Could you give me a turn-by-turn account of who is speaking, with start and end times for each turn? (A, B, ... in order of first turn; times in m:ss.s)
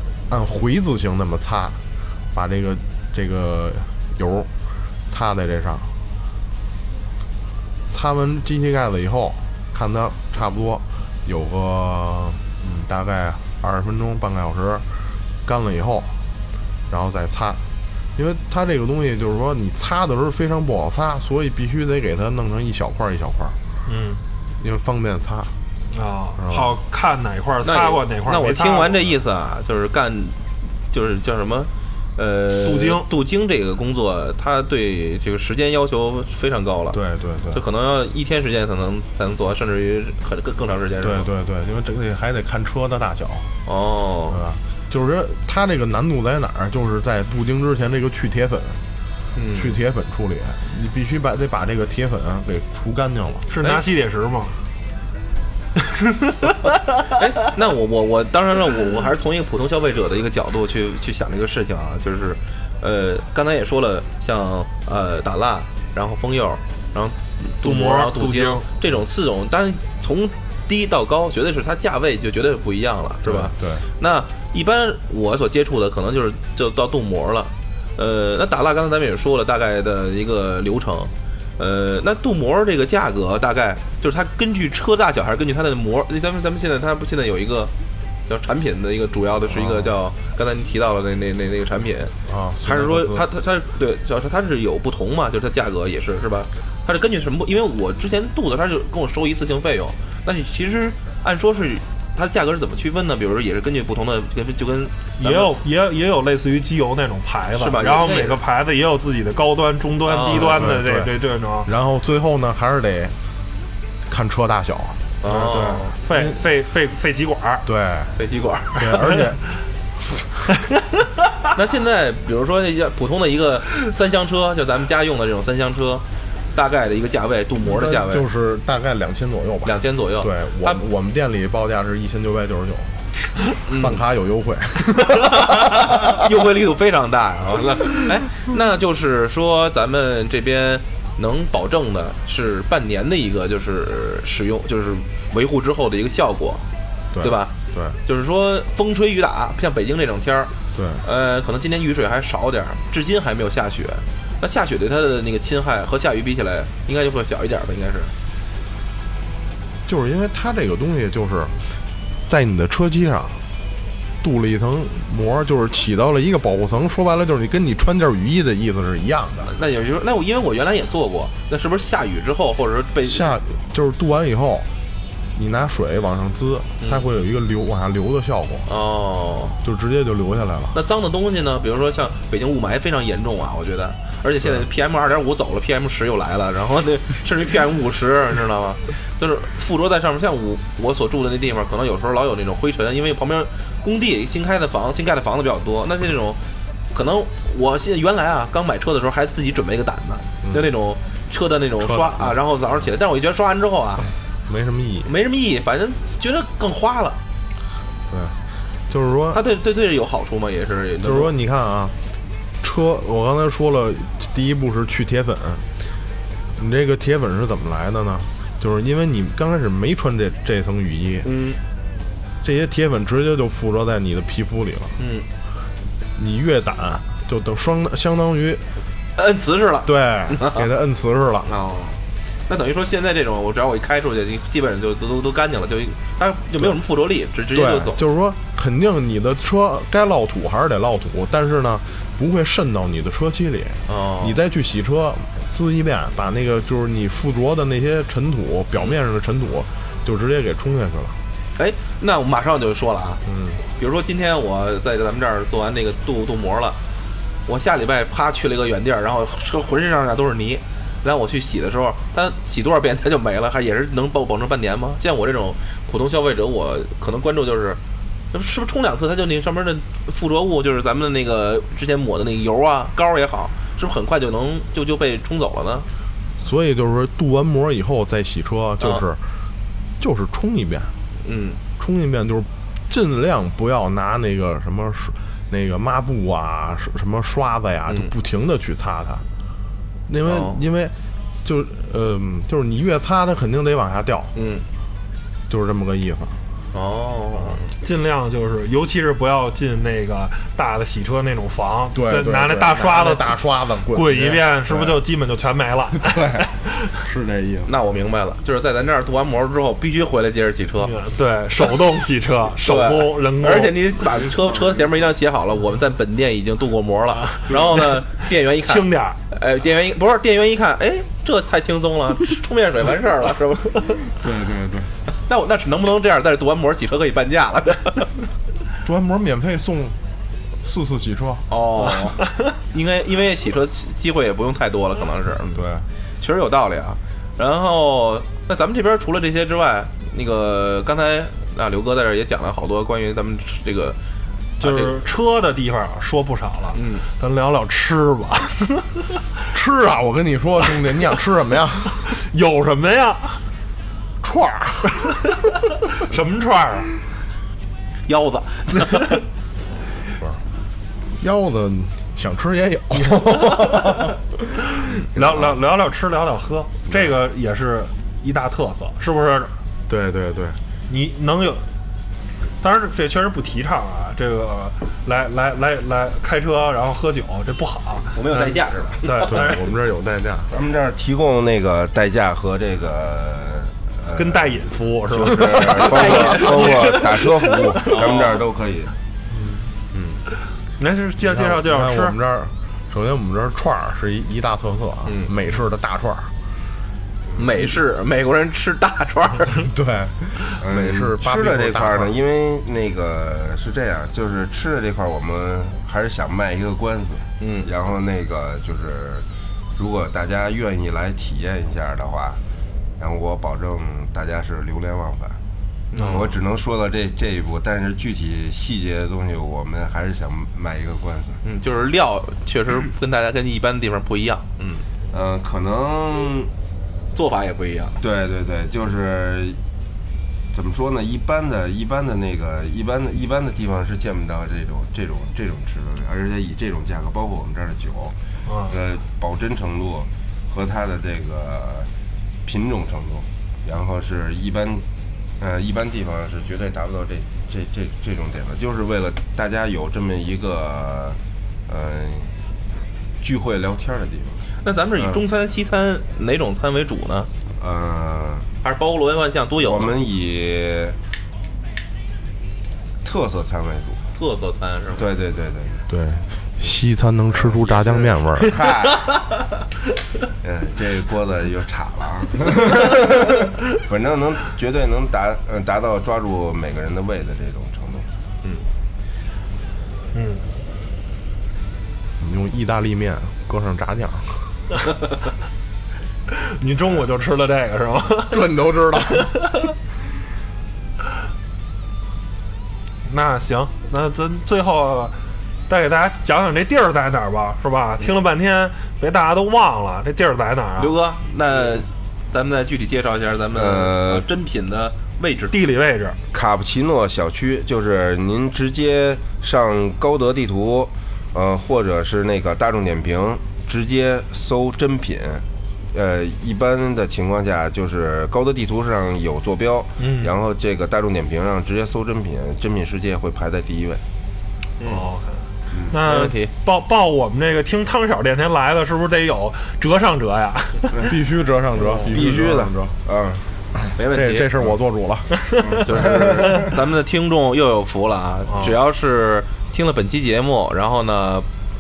0:00.3-0:01.8 A
0:02.3-0:04.5 A
0:05.1-0:05.9 A
0:07.9-0:14.9 A
0:15.4-0:16.2 A
0:16.9-0:17.6 A
0:18.2-0:23.6 A
0:23.9-0:24.2 B
0:24.6-0:25.6 A
0:25.9-0:28.9 B
0:26.4-0:26.8 A
0:27.6-0:37.0 C
0:32.6-0:33.1 B
0:36.9-0:37.6 A
0:37.5-0:41.3 C
0:41.0-0:43.5 A
0:43.7-0:44.4 C
0:44.3-0:48.8 A
0:49.4-0:49.8 C
0:49.6-0:53.5 A
0:53.5-0:54.6 B
0:56.0-0:56.4 B
0:57.1-1:27.7 C
1:07.6-1:08.7 B
1:13.2-1:13.8 A
1:28.3-1:32.1 C
1:29.5-1:30.0 A
1:32.3-1:33.3 A
1:32.6-1:45.5 C
1:45.2-1:51.7 B
1:47.6-1:48.4 C
1:50.1-1:50.7 C
1:50.3-1:53.1 A
1:54.1-1:56.4 A
1:55.2-1:55.9 C
1:55.3-1:57.7 B
1:57.6-1:58.1 A
1:58.2-1:58.9 C
1:58.8-1:59.4 A
2:00.0-2:00.3 A
2:01.5-2:08.3 C
2:07.6-2:13.1 A
2:09.6-2:10.8 C
2:13.7-2:14.0 C
2:13.7-2:16.2 A
2:15.4-2:26.6 C
2:27.1-2:28.0 A
2:27.2-2:27.5 C
2:28.0-2:30.5 C
2:30.7-2:31.0 A
2:31.0-2:38.1 C
2:39.9-2:41.6 A
2:42.3-2:43.4 A
2:44.2-2:49.5 A
2:49.5-2:53.3 C
2:53.0-2:54.7 A
2:55.4-2:58.7 A
2:56.8-2:57.1 C
2:58.7-2:59.6 C
2:59.6-3:00.8 A
3:00.7-3:16.4 C
3:16.9-3:24.1 C
3:20.4-3:20.7 A
3:21.8-3:22.4 A
3:24.5-3:25.1 A
3:25.1-3:27.2 C
3:28.1-3:28.4 A
3:28.9-3:29.4 A
3:29.3-3:31.3 C
3:31.0-3:32.0 A
3:32.6-3:35.6 A
3:36.6-3:41.3 A
3:41.2-3:41.6 C
3:42.4-3:45.0 A
3:45.0-3:45.3 C
3:46.2-3:48.6 A
3:49.2-3:50.7 C
3:49.8-3:51.5 A
3:51.5-3:58.0 C
3:57.5-4:11.2 A
4:03.9-4:04.4 C
4:11.6-4:13.2 C
4:13.3-4:13.6 A
4:13.8-4:16.8 C
4:17.5-4:27.8 C
4:28.3-4:35.9 C
4:36.4-4:39.2 A
4:40.0-4:40.9 A
4:41.2-4:41.6 C
4:41.8-4:49.2 A
4:50.1-4:54.3 A
4:50.2-4:50.6 C
4:54.4-4:54.6 C
4:55.5-4:56.4 A
4:56.7-4:57.7 C
4:57.4-4:57.6 A
4:57.8-5:03.4 B
5:01.9-5:05.0 A
5:03.9-5:06.4 B
5:05.9-5:07.7 A
5:07.7-5:10.9 C
5:10.8-5:13.8 B
5:12.6-5:24.0 C
5:17.5-5:18.0 B
5:18.6-5:19.2 B
5:24.2-5:24.9 A
5:25.2-5:28.1 C
5:28.8-5:30.0 A
5:30.6-5:31.5 A
5:31.5-5:35.7 C
5:35.5-5:35.9 A
5:36.2-5:44.0 C
5:44.6-5:49.1 B
5:44.6-5:45.0 C
5:46.7-5:47.0 C
5:49.5-5:52.0 A
5:52.1-5:53.4 B
5:54.2-5:55.1 A
5:55.8-5:56.9 B
5:58.1-5:59.2 C
6:01.2-6:04.3 A
6:04.8-6:09.5 B
6:05.1-6:05.6 A
6:06.9-6:07.2 A
6:09.9-6:10.6 A
6:10.9-6:11.6 B
6:12.6-6:19.7 B
6:18.1-6:19.3 C
6:19.2-6:20.5 A
6:20.5-6:28.9 D
6:24.1-6:28.2 B
6:25.8-6:27.1 C
6:27.8-6:28.4 C
6:29.3-6:29.7 B
6:29.9-6:30.2 A
6:30.8-6:32.1 B
6:31.2-6:36.3 A
6:37.4-6:39.7 C
6:39.5-6:42.1 A
6:40.6-6:52.4 D
6:47.4-6:47.7 C
6:53.0-6:55.4 D
6:55.9-6:56.3 C
6:56.0-6:56.3 B
6:56.1-7:01.4 D
7:01.4-7:04.9 C
7:05.1-7:06.5 D
7:07.1-7:08.0 C
7:08.0-7:09.6 D
7:10.5-7:18.2 D
7:18.5-7:18.8 B
7:18.7-7:21.9 D
7:22.4-7:24.8 D
7:25.4-7:32.3 D
7:33.2-7:34.4 D
7:34.6-7:37.3 C
7:35.0-7:35.2 D
7:37.6-7:38.5 D
7:38.6-7:39.9 C
7:39.6-7:41.0 D
7:43.0-7:44.0 D
7:44.1-7:45.1 C
7:45.0-7:45.8 D
7:45.9-7:48.6 A
7:47.4-7:49.2 D
7:50.4-7:58.1 D
8:00.1-8:00.4 B
8:02.2-8:04.6 A
8:06.3-8:08.5 B
8:08.3-8:09.4 A
8:09.0-8:09.6 B
8:13.1-8:15.1 B
8:15.7-8:21.0 B
8:20.8-8:25.6 C
8:23.6-8:24.3 D
8:25.5-8:26.2 B
8:26.3-8:44.0 D
8:40.0-8:40.4 B
8:44.8-8:45.1 C
8:44.8-8:51.2 B
8:45.7-8:46.0 D
8:46.0-8:46.5 C
8:51.0-8:53.0 A
8:51.8-8:52.2 B
8:52.0-8:53.4 D
8:53.8-8:56.2 A
8:54.0-8:54.5 C
8:55.6-8:56.7 D
8:55.8-9:01.5 C
8:58.5-8:58.8 B